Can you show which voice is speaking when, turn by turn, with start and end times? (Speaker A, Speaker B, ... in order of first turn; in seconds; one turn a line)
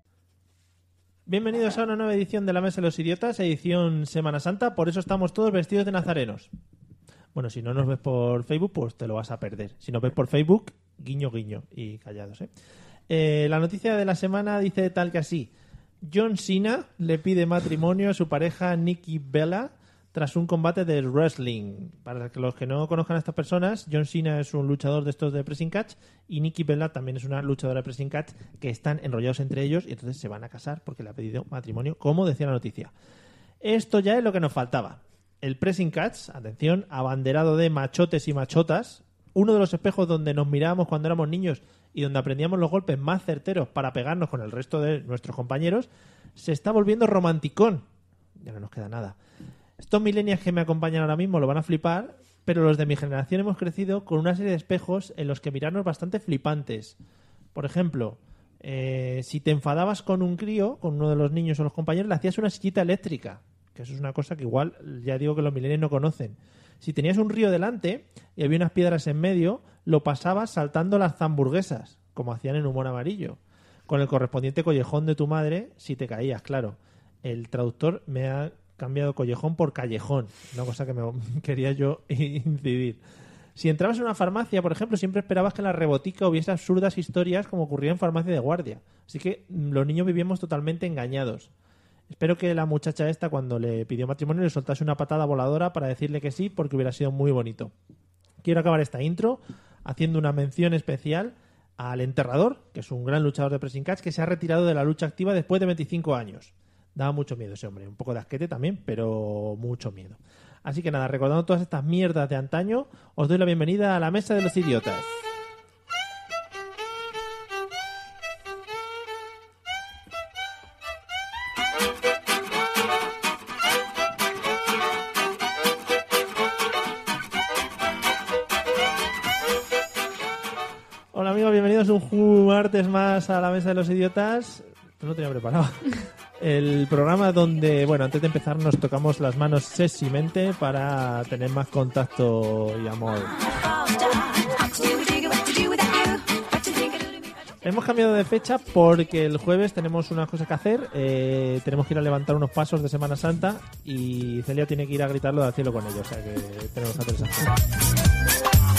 Speaker A: 1.3-6.5
Speaker A: 7.3-12.5
Speaker A: 13.1-15.5
Speaker A: 16.0-32.9
Speaker A: 33.6-47.9
Speaker A: 48.4-49.2
Speaker A: 49.8-57.0
Speaker A: 57.5-83.0
Speaker A: 83.6-91.5
Speaker A: 92.1-97.7
Speaker A: 98.4-115.1
Speaker A: 131.1-143.4
Speaker A: 147.6-157.6